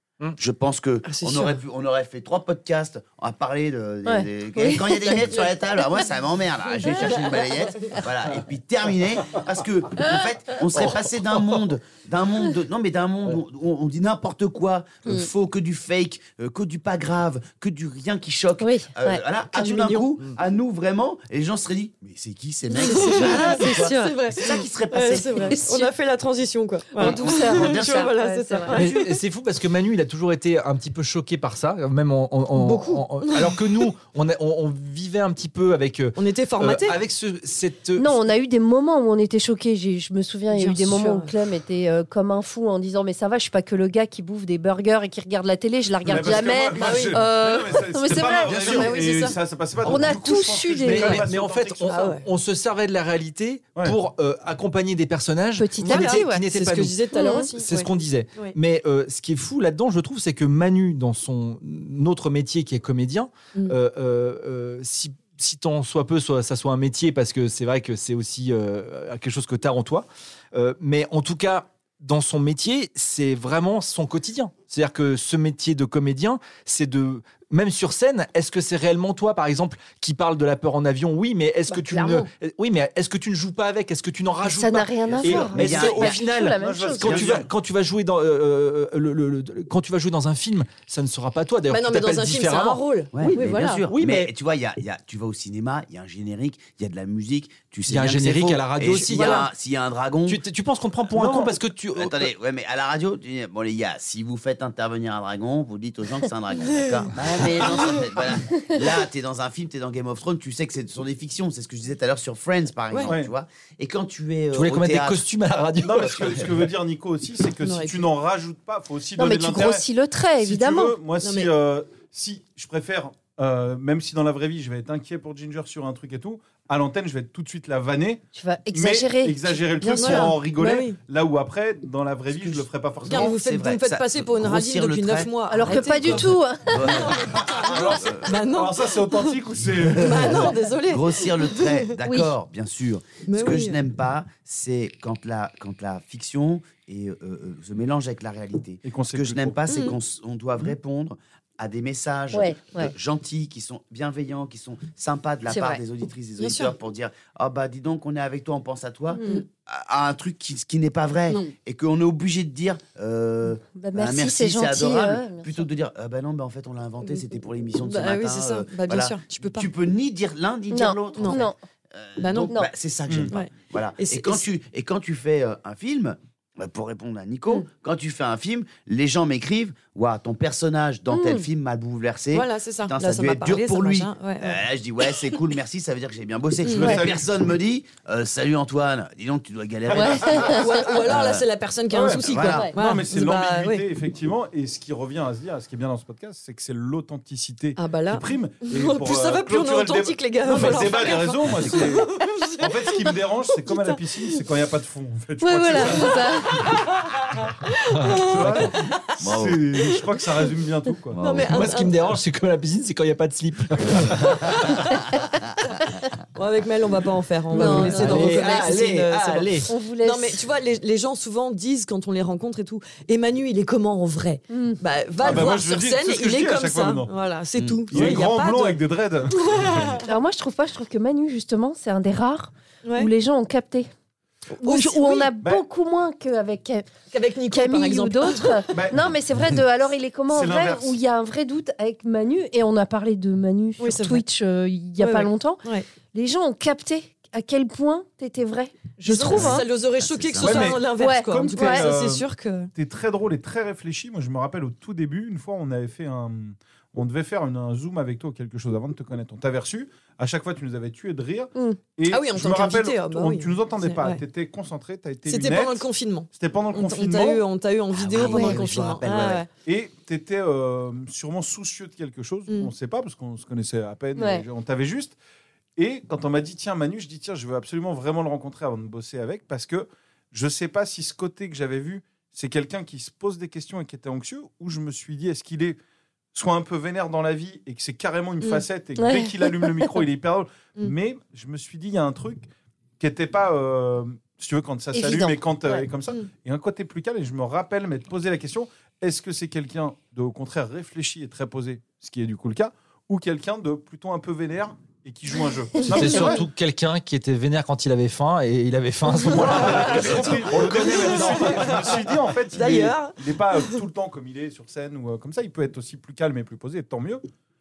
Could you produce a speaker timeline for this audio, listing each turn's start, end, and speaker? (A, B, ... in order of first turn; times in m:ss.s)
0:00.4-0:25.7 A
0:01.0-0:01.6 B
0:04.1-0:05.3 C
0:06.9-0:07.4 B
0:18.6-0:19.2 C
0:19.6-0:20.0 B
0:22.7-0:24.6 C
0:22.8-0:29.2 B
0:25.5-0:25.9 C
0:27.0-0:28.8 C
0:27.0-0:28.1 A
0:28.7-0:38.2 D
0:32.5-0:33.7 B
0:36.2-0:37.0 B
0:38.0-0:51.2 C
0:40.5-0:41.4 B
0:46.0-0:52.0 E
0:46.0-0:47.2 B
0:48.4-0:49.4 B
0:49.8-0:50.2 D
0:50.8-1:34.3 D
0:51.9-0:52.2 B
0:55.6-0:56.5 C
0:55.8-0:58.6 B
0:57.1-0:57.5 C
1:21.7-1:22.3 B
1:24.4-1:27.3 C
1:25.2-1:26.2 A
1:26.5-1:27.5 E
1:27.0-1:27.4 A
1:31.7-1:33.8 B
1:33.1-1:40.4 A
1:37.9-1:39.5 D
1:39.2-1:39.4 B
1:40.3-1:42.3 D
1:41.9-1:55.2 A
1:54.5-1:56.4 D
1:55.8-1:59.8 E
1:56.0-1:56.5 A
1:57.6-1:58.1 B
1:59.2-2:01.0 C
2:00.4-2:08.2 E
2:01.2-2:01.5 B
2:08.4-2:10.4 C
2:08.7-2:13.4 E
2:09.9-2:11.0 B
2:12.4-2:18.3 A
2:13.0-2:16.3 B
2:15.5-2:17.4 C
2:16.8-2:19.4 B
2:17.4-2:20.6 E
2:19.9-3:11.4 A
2:19.9-2:21.9 B
2:23.3-2:23.8 B
2:28.8-2:29.6 E
2:29.7-2:30.0 B
2:32.3-2:32.9 C
2:35.5-2:35.8 C
2:36.4-2:36.7 B
2:39.1-2:39.4 C
2:39.2-2:39.4 B
2:43.8-2:45.6 C
2:47.8-2:49.7 B
2:50.7-2:51.6 C
2:51.2-2:51.4 B
2:52.2-2:52.6 B
2:53.1-2:53.3 E
2:53.3-2:54.5 B
3:01.1-3:01.4 C
3:02.3-3:04.6 B
3:06.6-3:07.0 B
3:06.7-3:07.2 E
3:09.9-3:10.9 C
3:10.0-3:10.3 E
3:10.2-3:13.9 B
3:11.9-3:26.7 E
3:12.2-3:12.7 A
3:17.8-3:24.0 B
3:21.6-3:21.9 A
3:25.4-3:26.8 C
3:26.6-3:26.9 B
3:27.7-3:29.0 B
3:28.0-3:28.7 D
3:28.1-3:31.2 E
3:29.2-3:29.6 A
3:31.1-3:31.7 A
3:31.2-3:32.0 B
3:31.5-3:34.7 D
3:34.2-3:35.0 B
3:36.4-3:50.1 B
3:37.5-3:39.7 D
3:37.5-3:38.8 C
3:37.6-3:37.9 E
3:39.7-3:40.4 C
3:44.5-3:44.8 C
3:45.2-3:47.2 E
3:47.6-3:47.8 A
3:47.9-3:50.0 E
3:47.9-3:48.2 D
3:50.0-3:53.9 C
3:52.8-3:53.1 B
3:54.5-3:55.3 B
3:54.6-3:56.9 C
3:57.1-3:58.6 B
3:57.5-4:09.7 C
3:58.7-3:59.1 E
4:00.3-4:01.0 E
4:03.8-4:04.2 B
4:05.0-4:05.9 B
4:09.0-4:12.7 B
4:09.2-4:10.8 A
4:10.4-4:27.4 E
4:11.0-4:11.9 C
4:22.1-4:24.2 B
4:25.3-4:29.5 B
4:27.9-4:29.4 A
4:28.2-4:28.6 C
4:29.6-4:35.2 E
4:34.2-4:34.4 C
4:35.8-4:45.8 E
4:46.3-4:52.5 E
4:49.0-4:49.9 C
4:53.0-5:06.4 E
4:54.9-4:55.8 C
5:05.8-5:11.8 D
5:05.8-5:06.2 C
5:09.1-5:17.2 E
5:09.4-5:11.9 B
5:12.5-5:13.8 B